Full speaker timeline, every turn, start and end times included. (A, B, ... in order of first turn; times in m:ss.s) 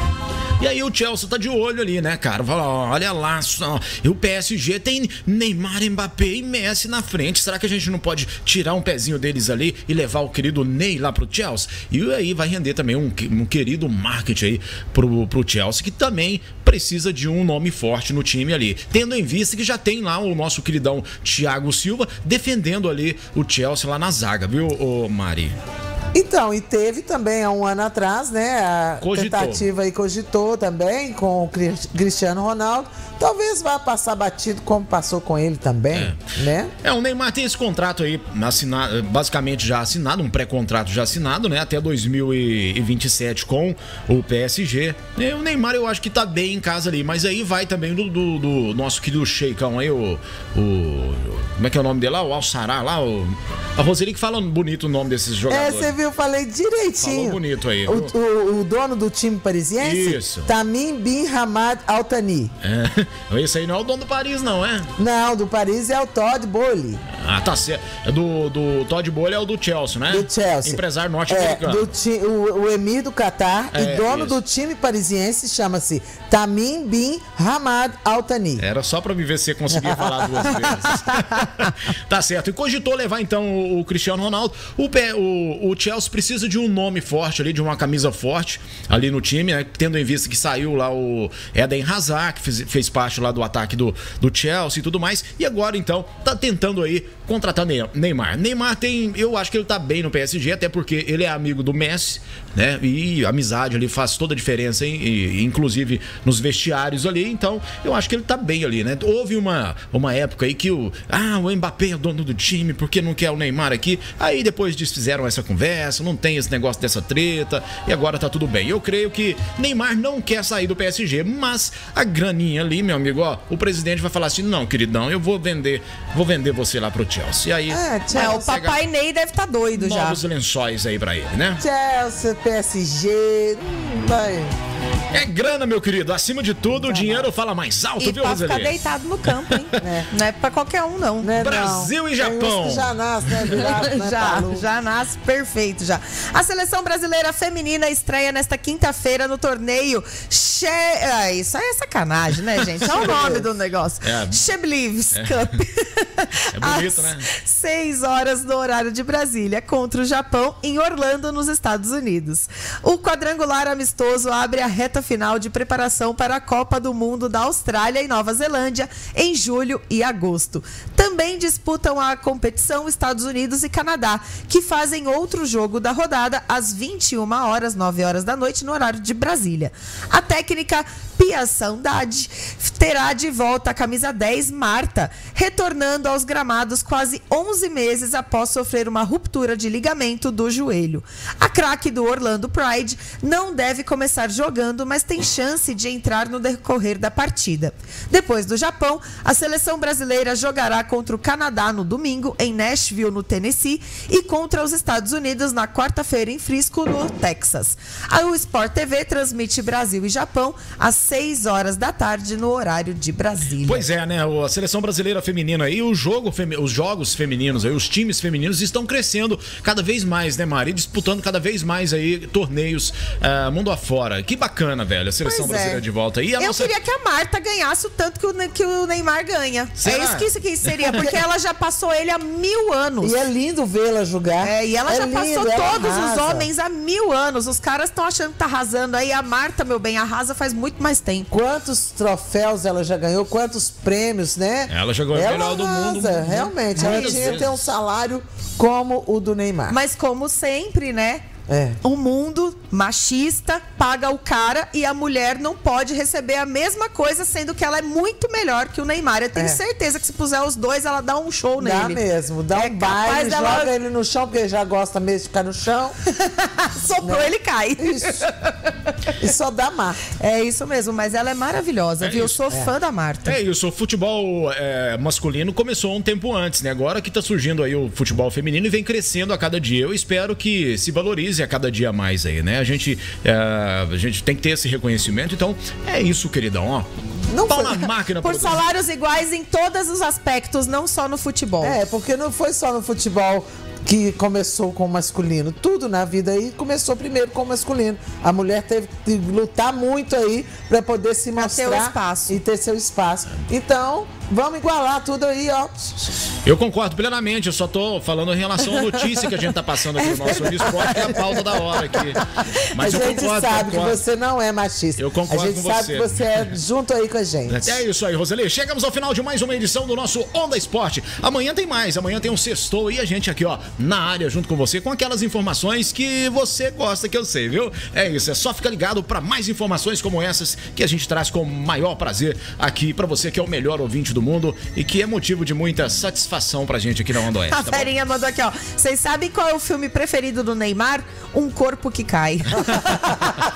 0:00.6-0:25.6 A
0:26.1-0:36.7 B
0:29.0-0:29.7 A
0:35.9-0:36.2 A
0:36.8-0:56.0 A
0:55.5-1:02.5 B
0:57.0-0:58.1 A
0:59.8-1:00.5 A
1:02.6-1:04.9 A
1:05.0-1:07.0 B
1:07.2-1:11.9 A
1:10.1-1:18.6 B
1:13.7-1:14.4 A
1:18.6-2:08.8 A
1:19.7-1:21.0 B
2:07.7-2:08.4 B
2:08.1-2:10.2 C
2:09.8-2:11.6 A
2:11.6-2:14.6 B
2:15.1-2:19.8 A
2:16.7-2:17.3 B
2:18.0-2:21.3 C
2:19.8-2:20.1 B
2:21.2-2:24.6 B
2:21.4-2:23.6 A
2:23.5-3:33.8 C
2:32.9-2:33.4 B
2:34.0-2:34.4 A
2:35.1-2:35.6 A
2:36.5-2:37.3 A
3:33.6-3:46.7 A
3:45.2-3:45.8 C
3:46.4-3:53.2 C
3:49.8-3:51.2 A
3:53.0-3:56.5 B
3:54.4-4:01.3 C
4:01.3-4:09.8 B
4:04.7-4:07.7 A
4:09.7-4:11.2 C
4:11.5-4:11.8 B
4:11.8-4:22.0 C
4:21.6-4:26.0 B
4:22.5-4:23.7 C
4:26.2-4:28.7 C
4:27.0-4:28.3 B
4:29.2-4:30.0 B
4:30.2-4:33.4 C
4:32.0-4:32.6 A
4:33.2-4:46.9 A
4:47.3-4:47.9 B
4:47.4-4:48.6 A
4:48.2-4:51.8 C
4:51.6-5:06.2 B
5:01.4-5:02.4 C
5:06.4-5:14.0 A
5:10.0-5:12.7 C
5:12.8-5:17.8 B
5:15.0-5:16.3 A
5:17.5-5:37.9 A
5:37.5-5:43.3 C